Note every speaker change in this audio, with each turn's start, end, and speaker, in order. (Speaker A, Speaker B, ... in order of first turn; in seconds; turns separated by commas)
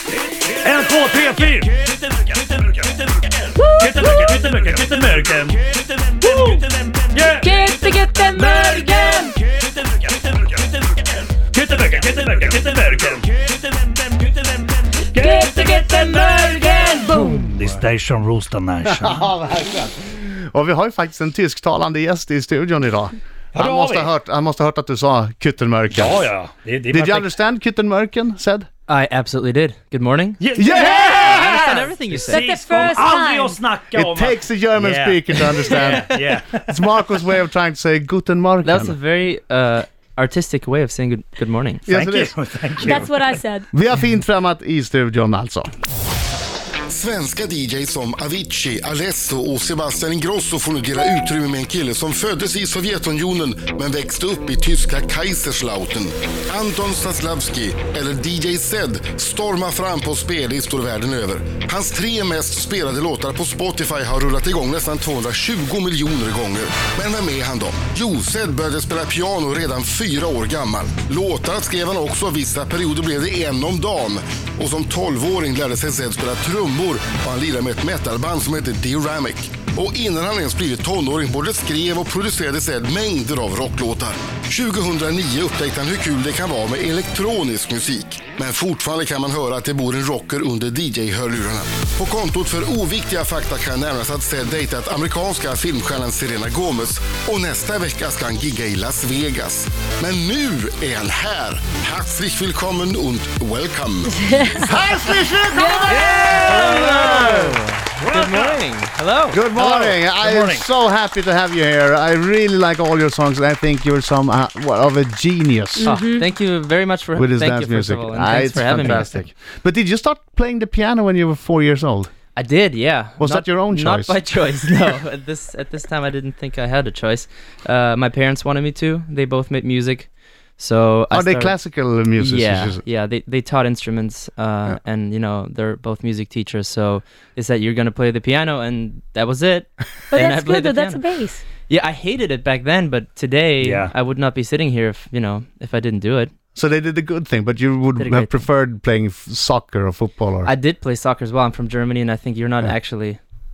Speaker A: 0.6-1.8, Speaker B: 3.5-4.5, Speaker A: 3.8-7.8, Speaker B: 6.2-6.7, Speaker B: 7.3-9.3, Speaker A: 8.3-10.4, Speaker A: 11.3-13.5, Speaker A: 15.1-19.3, Speaker B: 15.1-17.6, Speaker C: 18.8-26.3, Speaker A: 23.5-24.1, Speaker A: 25.9-27.3, Speaker C: 26.9-28.7, Speaker D: 28.9-30.4, Speaker A: 30.4-36.9, Speaker C: 30.6-31.9, Speaker B: 30.7-31.6, Speaker D: 31.0-32.5, Speaker B: 32.3-33.6, Speaker C: 33.9-39.0, Speaker D: 35.7-36.2, Speaker D: 38.6-41.8, Speaker C: 41.9-43.0, Speaker A: 41.9-43.1, Speaker B: 42.8-43.7, Speaker C: 43.7-45.7, Speaker E: 46.9-104.7, Speaker B: 104.1-104.8, Speaker C: 104.6-107.6, Speaker B: 105.4-106.4, Speaker D: 105.9-109.3, Speaker A: 106.2-107.4, Speaker A: 108.0-110.7, Speaker C: 109.3-116.0, Speaker B: 115.8-116.2, Speaker D: 115.8-119.1, Speaker C: 117.2-122.1, Speaker D: 122.3-131.6, Speaker C: 123.2-124.2, Speaker C: 131.1-132.8, Speaker D: 132.1-141.0, Speaker B: 140.1-141.4, Speaker D: 141.7-146.3, Speaker A: 143.6-143.9, Speaker C: 146.5-150.5, Speaker D: 147.9-148.3, Speaker D: 150.4-153.2